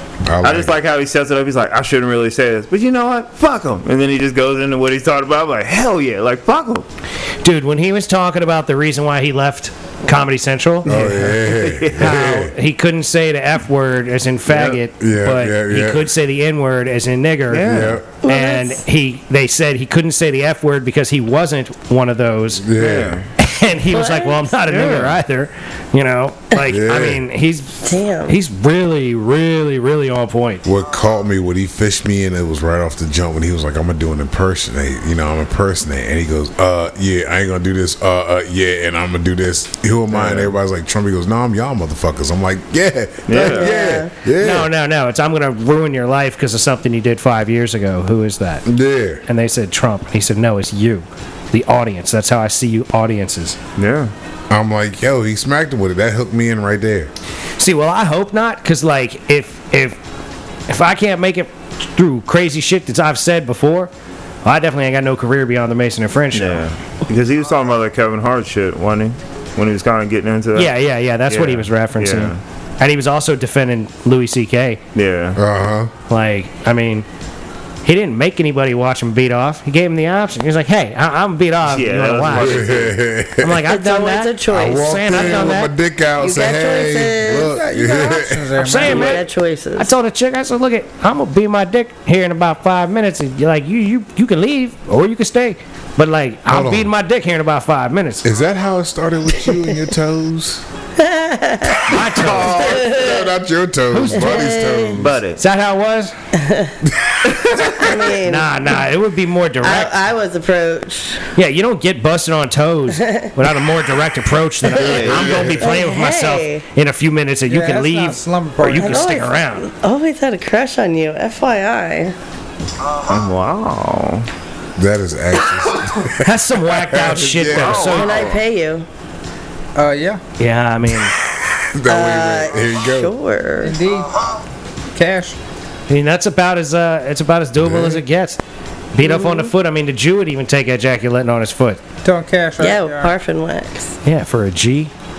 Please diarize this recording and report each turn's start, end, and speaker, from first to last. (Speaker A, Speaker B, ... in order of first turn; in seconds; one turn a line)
Speaker A: 0.2-0.8
Speaker B: 0.4-6.9
Speaker C: 7.4-10.9
Speaker B: 10.8-12.2
Speaker A: 10.8-12.5
Speaker C: 12.0-22.7
Speaker B: 14.5-14.8
Speaker A: 15.0-16.1
Speaker B: 17.5-18.0
Speaker A: 17.6-18.1
Speaker D: 18.2-18.8
Speaker A: 22.6-23.2
Speaker B: 22.8-23.2
Speaker C: 23.4-30.6
Speaker D: 23.9-24.5
Speaker B: 24.7-25.2
Speaker A: 26.6-27.2
Speaker D: 27.9-28.4
Speaker A: 30.6-44.7
Speaker B: 40.1-40.5
Speaker B: 43.3-43.7
Speaker D: 43.4-44.1
Speaker C: 44.4-48.6
Speaker A: 48.7-49.2
Speaker C: 49.3-53.6
Speaker B: 53.8-54.1
Speaker A: 54.5-57.1
Speaker C: 57.6-60.0
Speaker C: 60.7-63.9
Speaker C: 64.5-66.7
Speaker B: 66.3-70.7
Speaker C: 70.6-74.8
Speaker B: 71.3-72.4
Speaker B: 74.9-75.4
Speaker A: 75.4-75.9
Speaker C: 76.1-77.0
Speaker C: 77.8-82.7
Speaker B: 81.7-83.0
Speaker A: 82.3-83.7
Speaker C: 83.4-85.7
Speaker D: 83.7-85.6
Speaker A: 84.5-88.5
Speaker D: 86.2-87.5
Speaker E: 87.3-89.2
Speaker C: 88.6-98.3
Speaker D: 88.8-89.9
Speaker A: 96.5-96.9
Speaker A: 98.2-100.6
Speaker D: 99.4-99.8
Speaker D: 101.0-103.3
Speaker C: 101.9-103.0
Speaker A: 101.9-105.2
Speaker C: 103.9-104.6
Speaker D: 104.1-105.0
Speaker B: 105.0-105.4
Speaker C: 105.4-106.1
Speaker D: 106.3-106.8
Speaker A: 106.8-107.9
Speaker D: 107.7-108.5
Speaker C: 108.2-109.9
Speaker D: 109.6-111.2
Speaker C: 111.3-119.7
Speaker D: 113.0-113.3
Speaker B: 114.7-115.5
Speaker A: 114.8-115.7
Speaker D: 114.8-116.6
Speaker E: 117.5-119.1
Speaker D: 118.8-122.2
Speaker B: 123.1-124.3
Speaker A: 124.8-128.3
Speaker C: 126.2-128.2
Speaker B: 127.5-128.4
Speaker D: 127.8-128.9
Speaker E: 129.8-130.2
Speaker C: 130.4-131.1
Speaker A: 131.4-133.1
Speaker D: 131.9-133.8
Speaker E: 133.6-134.1
Speaker E: 134.9-135.4
Speaker C: 135.9-138.4
Speaker A: 137.6-138.1
Speaker C: 138.9-141.8
Speaker D: 139.0-139.5
Speaker E: 142.0-143.1
Speaker D: 142.6-143.9
Speaker C: 144.1-144.9